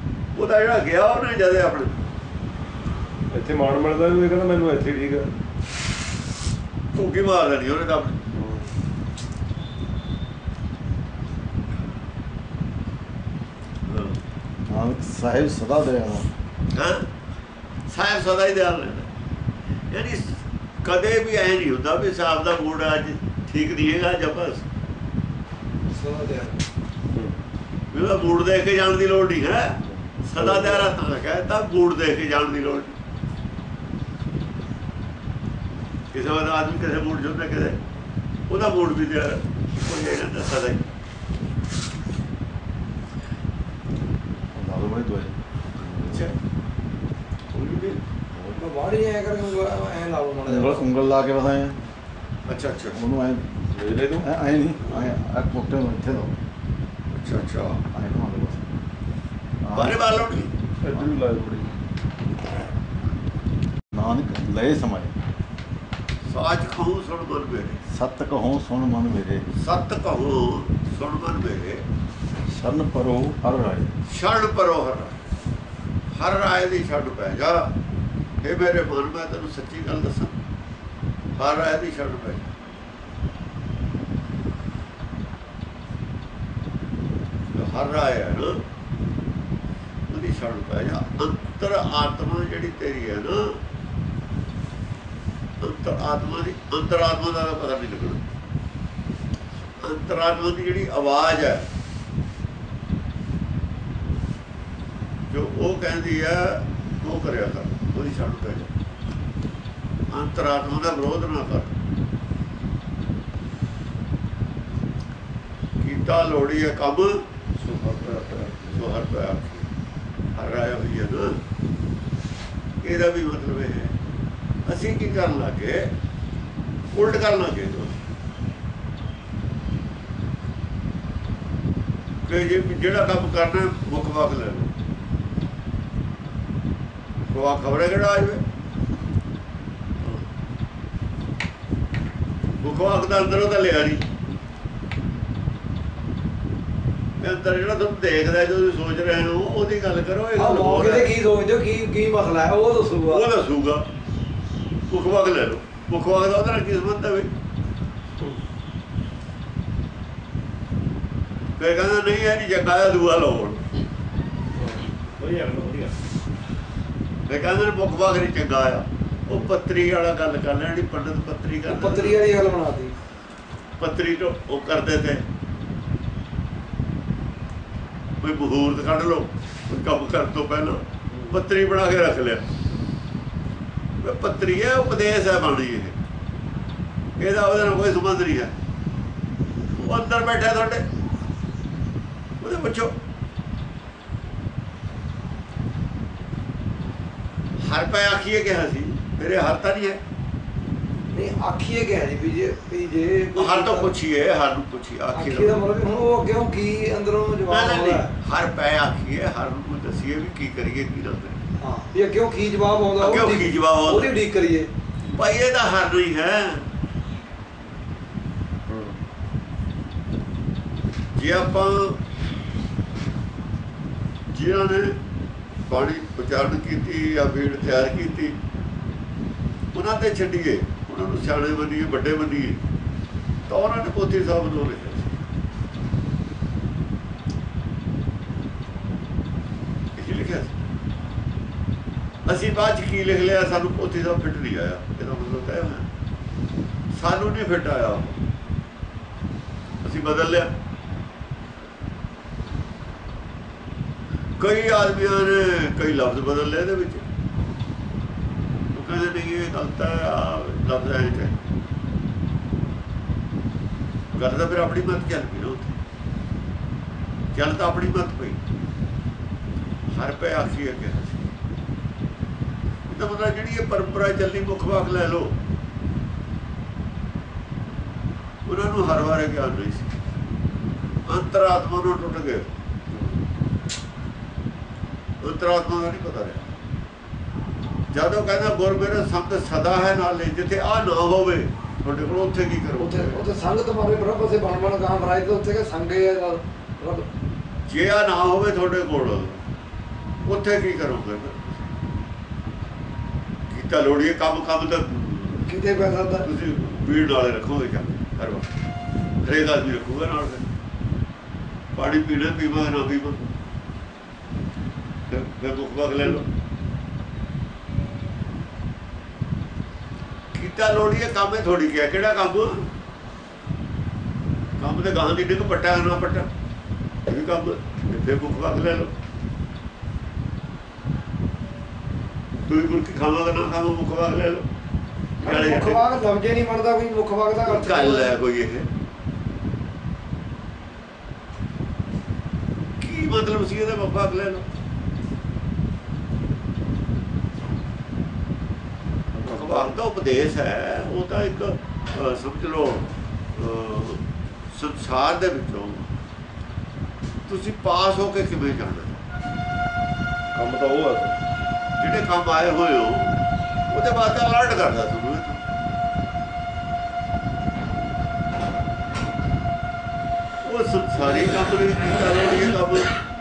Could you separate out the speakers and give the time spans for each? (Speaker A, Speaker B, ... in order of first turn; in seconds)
Speaker A: 0.3-1.9, 6.9-8.2, 13.9-14.2, 16.7-17.1, 17.9-19.1, 19.9-24.6, 27.9-33.0, 36.1-37.8, 38.5-40.8, 45.8-46.4, 47.5-48.0, 52.5-53.0, 57.1-57.8, 59.7-60.5, 66.3-67.8, 69.5-71.8, 74.1-75.3, 76.2-77.7, 78.4-80.3, 81.4-82.5, 87.5-88.6, 90.1-93.6, 95.6-98.2, 99.8-101.7, 105.3-108.7, 110.1-111.8, 115.8-117.2, 118.7-119.7, 120.3-121.4, 122.8-124.0, 124.7-125.9, 126.9-128.0, 132.3-134.7, 137.3-138.4, 142.6-144.0, 147.2-151.1, 153.1-153.8, 154.9-157.3, 161.6-163.6, 167.3-172.2, 173.8-175.3, 178.2-182.4, 184.0-186.0, 187.2-188.6, 189.7-190.9, 192.4-192.9, 197.6-200.0, 203.4-205.6, 207.5-211.4, 213.0-214.1, 215.1-216.7, 221.2-222.0, 224.3-225.0, 225.7-228.3, 229.7-232.6, 233.5-235.2, 240.0-240.6, 242.3-245.9, 246.9-248.2, 249.8-250.5, 254.4-257.0, 258.7-261.4, 264.1-265.7, 267.3-268.4, 269.9-271.3, 272.9-275.4, 278.5-279.9, 281.1-282.5, 285.2-286.5, 287.9-293.2, 297.7-299.4, 300.2-301.7, 303.5-305.4, 306.2-308.5, 309.2-310.5, 311.8-313.2, 315.1-316.3, 320.3-322.7, 324.6-326.3, 327.1-328.9, 332.5-334.5, 335.2-335.8, 337.5-338.7, 342.8-344.5, 349.3-355.9, 357.3-359.0, 361.8-363.2, 363.7-365.4, 370.4-372.9
Speaker B: 3.3-5.3, 8.3-8.7, 30.4-30.8, 60.8-61.8, 117.6-118.7, 164.6-165.9, 218.7-219.0, 282.9-283.2, 349.2-349.7, 360.3-361.2
Speaker C: 14.7-16.3, 44.5-46.3, 50.5-51.8, 52.9-56.4, 57.9-58.6, 59.6-60.1, 63.9-65.2, 67.9-69.5, 72.5-73.9
Speaker D: 25.9-26.6, 48.5-50.9, 150.3-153.3, 171.7-172.9, 201.1-203.9, 205.1-208.1, 211.6-214.7, 292.8-297.1, 305.5-306.3, 335.2-338.1